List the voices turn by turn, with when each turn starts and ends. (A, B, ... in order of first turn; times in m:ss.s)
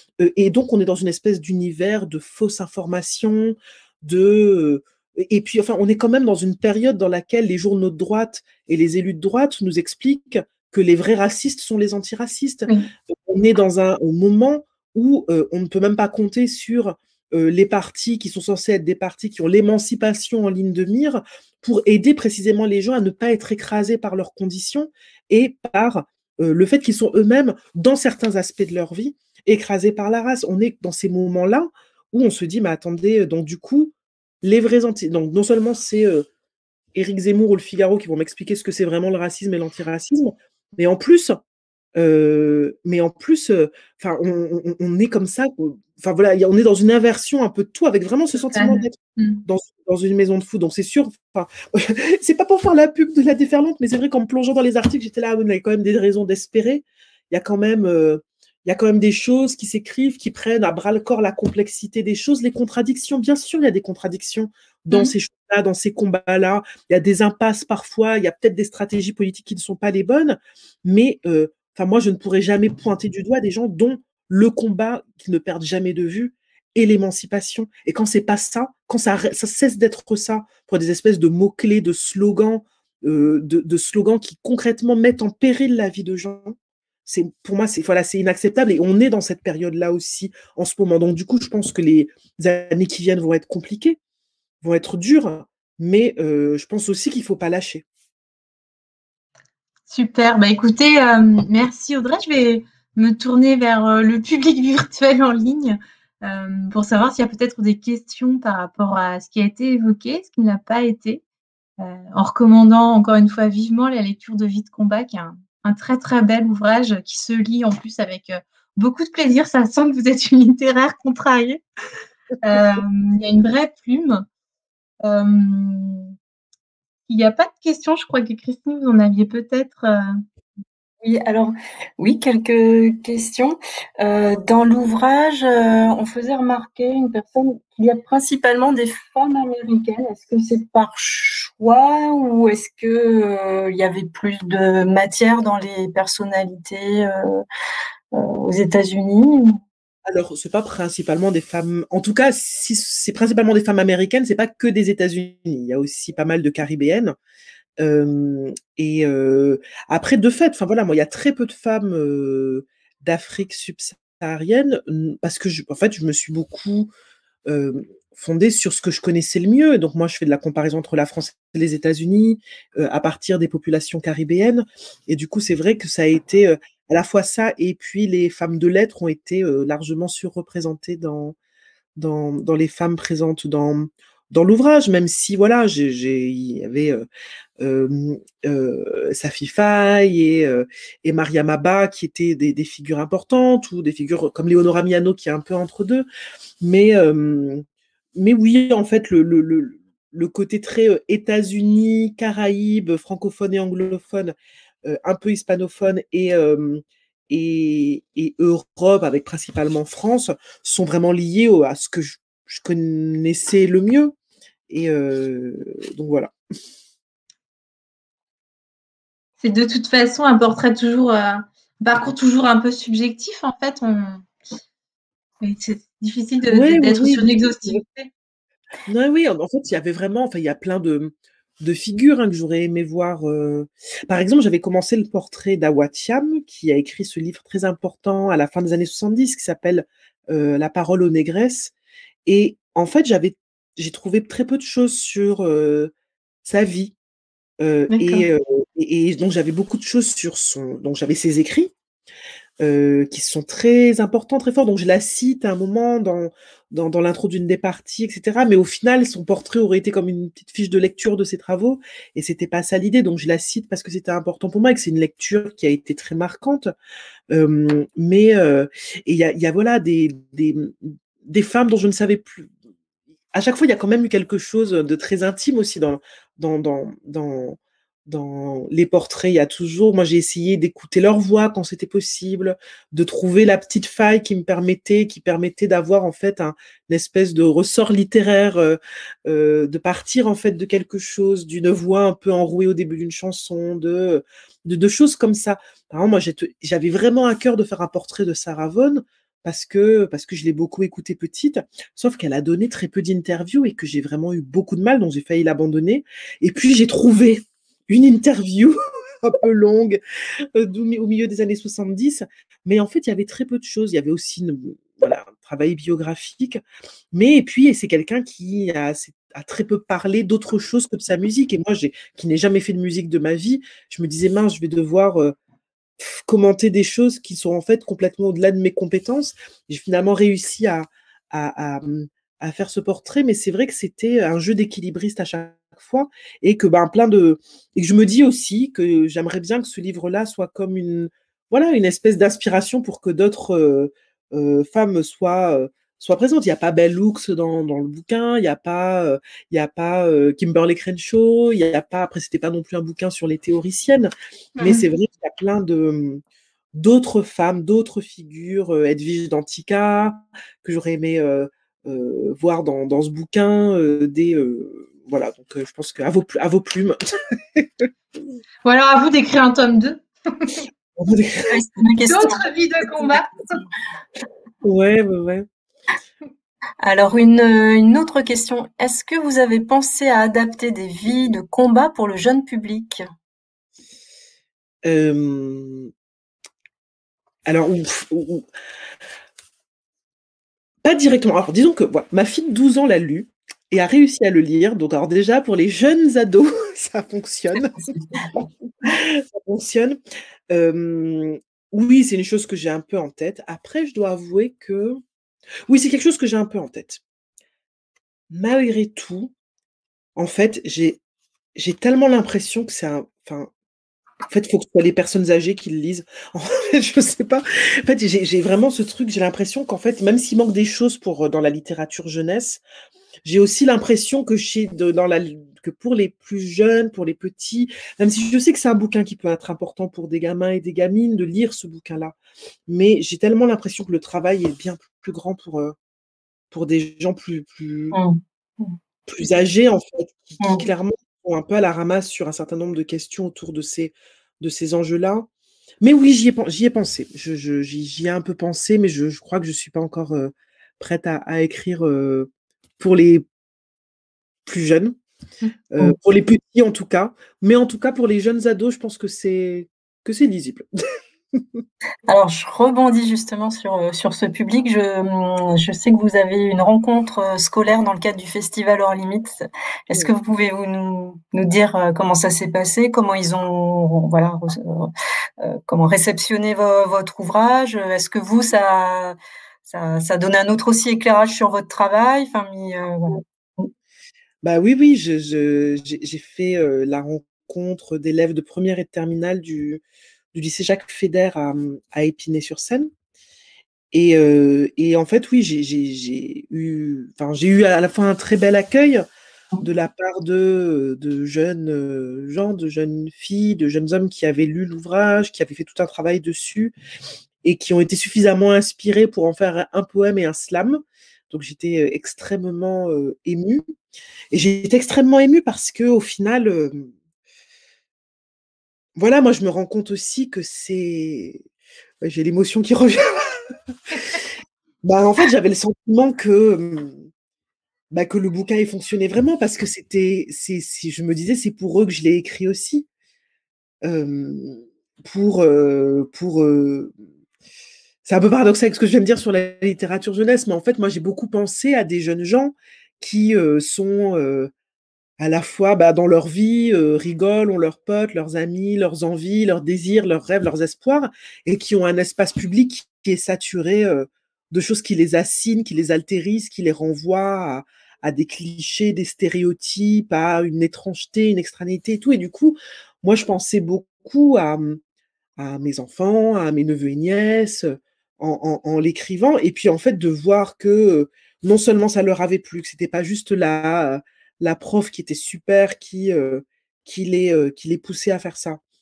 0:00.2-0:36.3 A
0:37.0-0:41.4 A
0:42.0-1:34.0 A
0:48.3-0:49.4 B
1:34.6-1:37.8 A
1:39.9-1:51.2 B
1:51.8-2:01.6 B
2:02.4-2:04.2 B
2:05.0-2:06.1 B
2:07.1-2:10.1 B
2:11.0-2:27.4 C
2:28.1-2:29.6 C
2:30.1-2:37.2 A
2:37.8-2:46.9 A
2:47.5-3:01.4 A
3:02.0-3:07.1 A
3:07.6-3:16.1 A
3:16.6-3:17.6 A
3:18.2-3:34.2 A
3:34.7-3:36.3 A
3:39.4-3:44.3 B
3:45.4-3:48.1 B
3:46.5-3:47.8 A
3:48.9-4:01.7 A
4:02.3-4:05.9 A
4:06.4-4:07.0 A
4:07.6-4:11.7 A
4:07.9-4:08.3 B
4:12.6-4:26.7 A
4:27.3-4:32.5 A
4:33.3-5:10.0 A
5:10.6-5:16.6 A
5:17.1-5:25.4 A
5:26.0-5:54.1 A
5:54.6-5:54.8 B
5:54.6-5:56.2 A
5:56.7-6:07.9 A
6:08.6-6:10.6 B
6:11.0-6:11.5 A
6:11.5-6:13.2 C
6:12.1-6:13.6 B
6:14.6-6:15.5 A
6:16.8-6:23.0 C
6:24.9-6:25.9 A
6:27.5-6:28.5 A
6:30.8-6:40.0 A
6:40.5-6:45.0 A
6:45.7-6:47.0 A
6:48.3-6:49.3 A
6:50.2-6:51.0 A
6:51.6-6:53.5 A
6:54.3-7:02.6 A
7:03.2-7:12.2 A
7:12.7-7:15.8 A
7:16.5-7:18.0 A
7:17.9-7:18.8 C
7:19.1-7:25.3 A
7:20.4-7:20.7 C
7:25.8-7:33.3 A
7:34.4-7:35.0 A
7:35.7-7:40.7 A
7:41.3-7:41.6 A
7:42.1-8:03.7 C
8:04.4-8:09.8 A
8:10.3-8:12.9 A
8:13.9-8:19.0 A
8:19.6-8:26.7 A
8:27.4-8:33.6 A
8:34.3-8:36.9 A
8:39.0-8:41.4 A
8:42.0-8:44.3 A
8:44.8-8:47.1 A
8:47.9-8:52.9 A
8:53.8-8:56.9 A
8:58.0-9:04.5 A
9:05.2-9:24.8 A
9:25.4-9:38.6 A